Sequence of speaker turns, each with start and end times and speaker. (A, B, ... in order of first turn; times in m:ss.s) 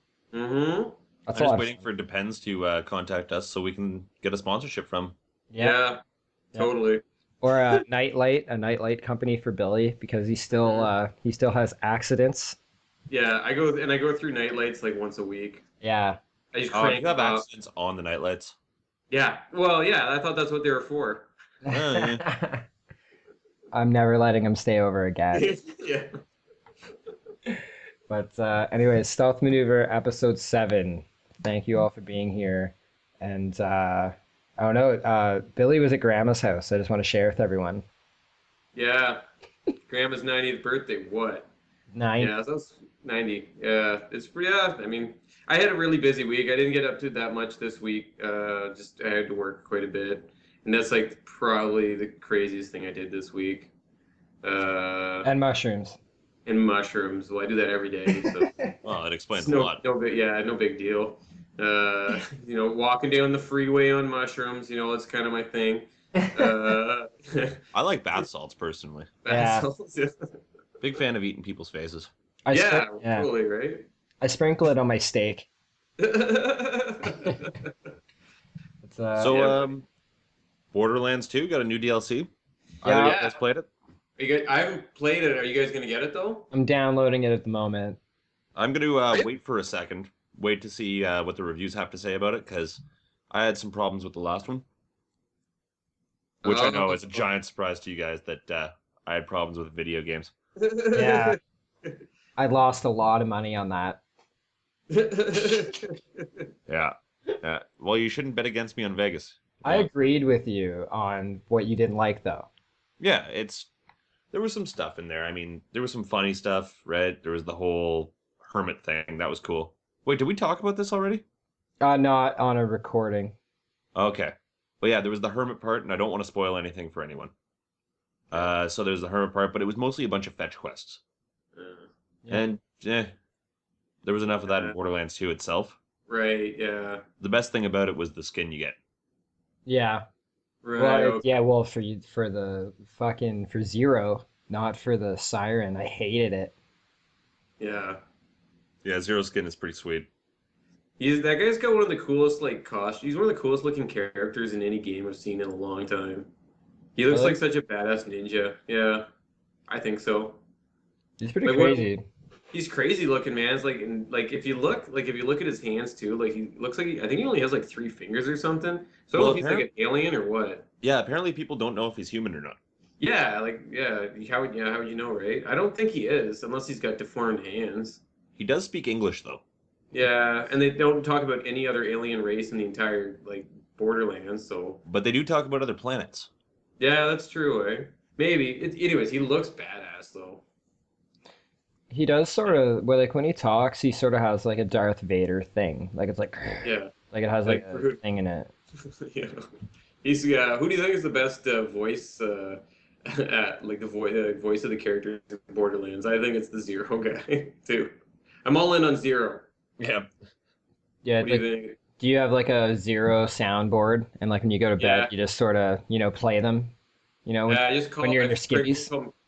0:00.3-0:01.0 A
0:01.3-0:01.8 B
0:01.3-0:05.2 C
0:05.5-0:05.8 B
0:05.6-0:06.0 A
0:06.6-0:07.0 A
0:07.4-0:12.6 B
0:10.6-0:10.9 A
0:13.1-0:15.6 A
0:15.8-0:16.2 B
0:16.5-0:17.4 A
0:16.7-0:18.5 C
0:19.1-0:21.3 A
0:21.7-0:22.6 B
0:21.7-0:22.2 C
0:23.7-0:25.5 B
0:25.3-0:26.1 A
0:28.1-0:37.8 B
0:38.8-0:39.2 A
0:39.8-0:41.5 A
0:41.9-0:42.3 B
0:42.2-0:53.7 A
0:54.4-0:55.3 A
0:55.2-0:56.0 B
0:56.5-0:58.5 A
0:58.1-0:58.7 B
0:58.8-0:59.8 C
0:59.4-1:07.6 A
1:06.2-1:06.5 B
1:07.7-1:09.1 C
1:09.2-1:10.4 A
1:09.3-1:09.7 B
1:10.8-1:12.1 C
1:12.5-1:13.3 B
1:12.5-1:13.9 A
1:14.2-1:15.5 B
1:16.0-1:17.7 A
1:18.8-1:19.4 B
1:19.2-1:19.9 C
1:19.3-1:19.7 A
1:20.7-1:22.3 C
1:22.8-1:23.7 C
1:22.8-1:23.2 B
1:23.0-1:23.4 A
1:24.2-1:26.5 A
1:26.5-1:28.0 B
1:28.6-1:34.6 C
1:36.4-1:37.3 A
1:36.4-1:40.3 C
1:40.6-1:41.4 A
1:40.9-1:41.4 B
1:42.4-1:44.0 B
1:44.9-1:46.5 A
1:46.7-1:49.9 C
1:49.6-1:52.5 B
1:53.0-1:53.7 C
1:54.3-2:01.2 C
2:01.8-2:03.4 B
2:04.0-2:07.3 C
2:08.3-2:11.0 C
2:11.6-2:11.9 A
2:12.3-2:13.1 C
2:14.0-2:15.8 C
2:14.5-2:14.8 A
2:16.1-2:17.0 A
2:17.2-2:18.8 C
2:19.7-2:20.1 B
2:20.6-2:21.2 A
2:20.8-2:26.5 B
2:27.6-2:28.0 A
2:28.8-2:30.1 C
2:31.0-2:36.3 A
2:37.0-2:39.1 A
2:37.1-2:37.4 B
2:39.7-2:40.4 A
2:41.2-2:42.1 B
2:41.4-2:41.9 A
2:42.5-2:50.7 A
2:49.1-2:49.7 C
2:50.8-2:52.6 C
2:53.0-2:58.0 A
2:58.4-2:59.4 C
2:59.9-3:04.8 A
3:04.9-3:06.3 C
3:06.8-3:10.4 A
3:11.9-3:18.5 B
3:16.6-3:16.9 A
3:17.4-3:18.0 A
3:18.9-3:19.4 A
3:20.0-3:27.9 A
3:28.4-3:29.5 A
3:29.8-3:30.1 C
3:31.0-3:36.7 B
3:31.2-3:31.8 A
3:34.8-3:35.1 A
3:37.3-3:38.9 B
3:37.5-3:39.1 A